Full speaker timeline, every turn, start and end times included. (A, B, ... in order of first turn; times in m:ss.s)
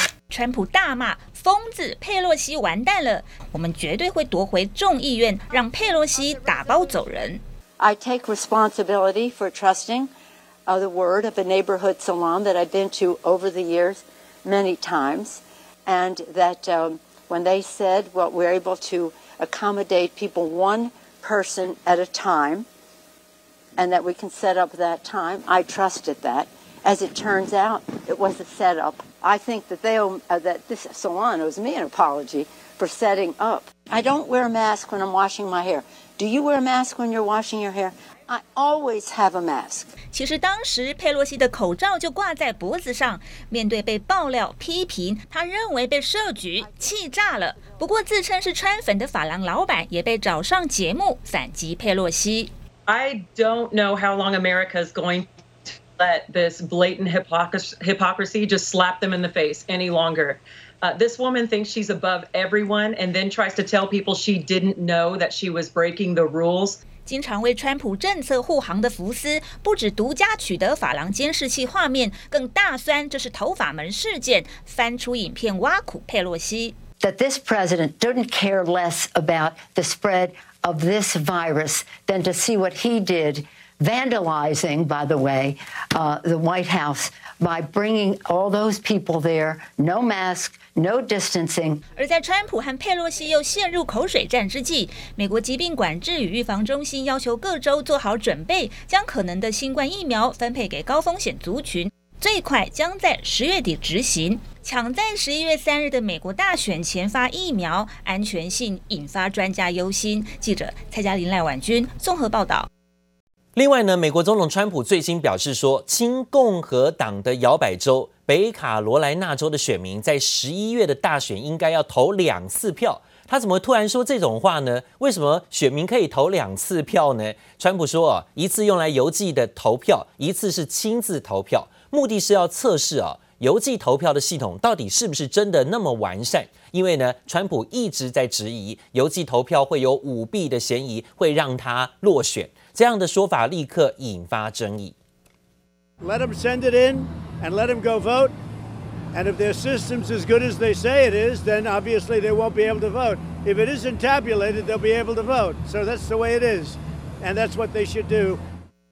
0:00.3-0:07.4 A
0:07.8-0:10.1 B
0:10.7-0:22.6 B
0:23.8-0:39.9 B
0:40.1-0:52.5 A
0:52.9-0:55.3 C
0:56.0-1:06.8 C
1:07.0-1:16.8 A
1:17.0-1:31.8 B
1:31.9-1:52.7 A
1:53.5-2:24.9 D
2:26.0-2:28.3 E
2:29.1-2:38.4 E